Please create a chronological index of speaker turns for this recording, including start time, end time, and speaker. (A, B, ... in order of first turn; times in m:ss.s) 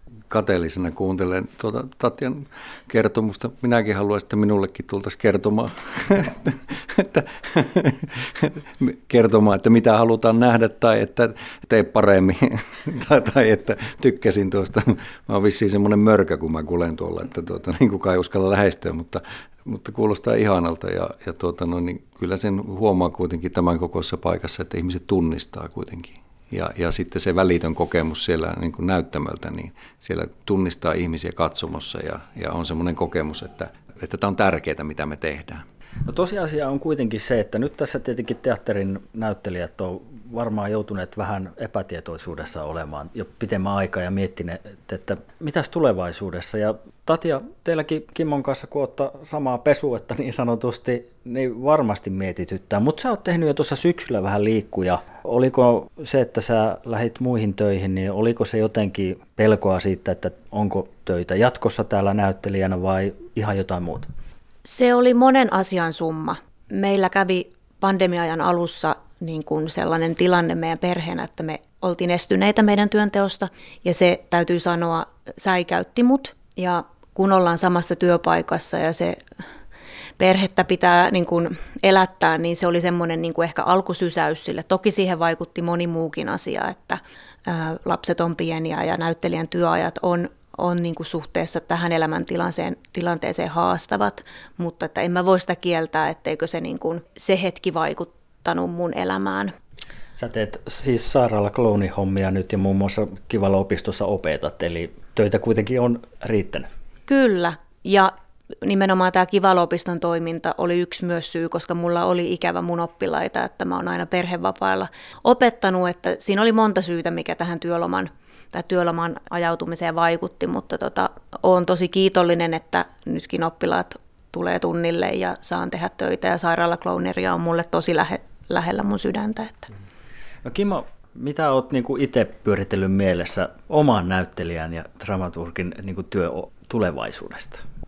0:00.3-0:35.6 A
0:36.0-1:04.1 B
1:04.6-1:19.2 C
1:20.2-1:39.5 C
1:40.2-1:46.6 B
1:47.1-1:48.1 C
1:48.6-2:09.7 C
2:10.4-2:17.6 B